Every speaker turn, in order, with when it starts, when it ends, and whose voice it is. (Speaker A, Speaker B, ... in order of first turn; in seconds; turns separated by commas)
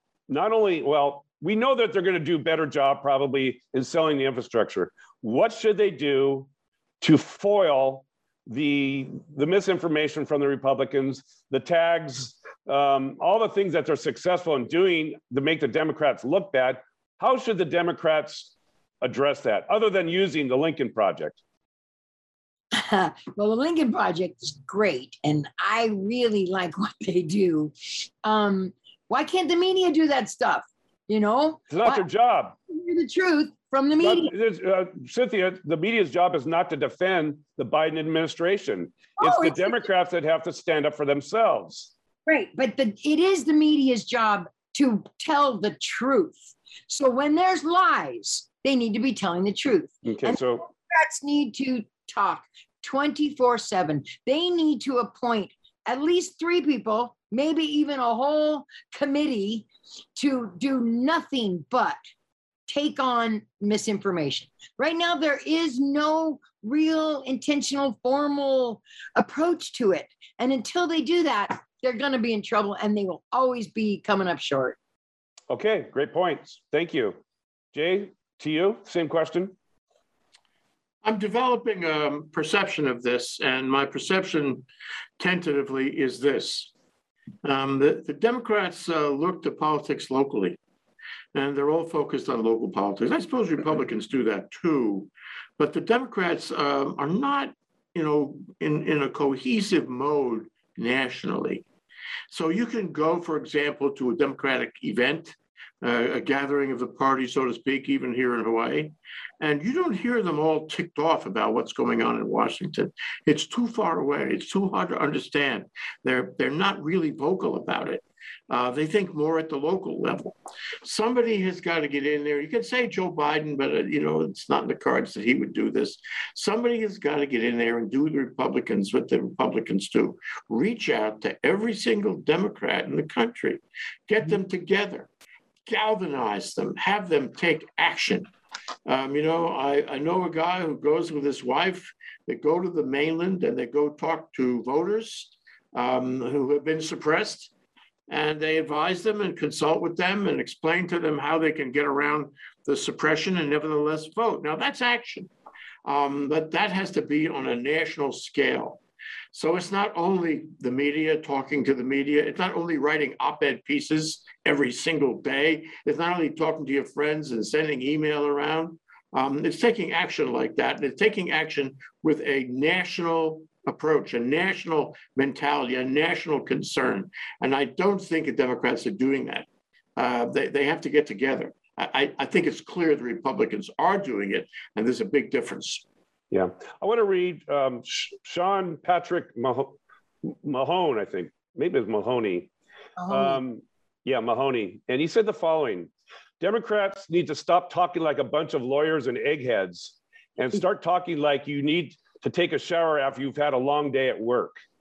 Speaker A: 0.3-6.5, Speaker A: 7.0-21.4, Speaker B: 22.7-27.7, Speaker B: 28.2-32.0, Speaker A: 31.7-32.5, Speaker B: 32.7-34.3, Speaker A: 34.0-41.9, Speaker B: 39.2-39.8, Speaker B: 42.2-62.0, Speaker A: 50.0-50.6, Speaker B: 62.7-74.8, Speaker A: 75.5-77.2, Speaker A: 77.7-79.5, Speaker C: 81.0-84.7, Speaker C: 85.2-86.7, Speaker C: 87.4-90.6, Speaker C: 91.3-101.6, Speaker C: 102.3-135.1, Speaker C: 135.7-138.3, Speaker C: 138.8-147.5, Speaker C: 148.1-155.3, Speaker C: 155.8-158.8, Speaker C: 159.3-185.8, Speaker A: 186.3-192.5, Speaker B: 193.0-193.4, Speaker A: 193.1-204.6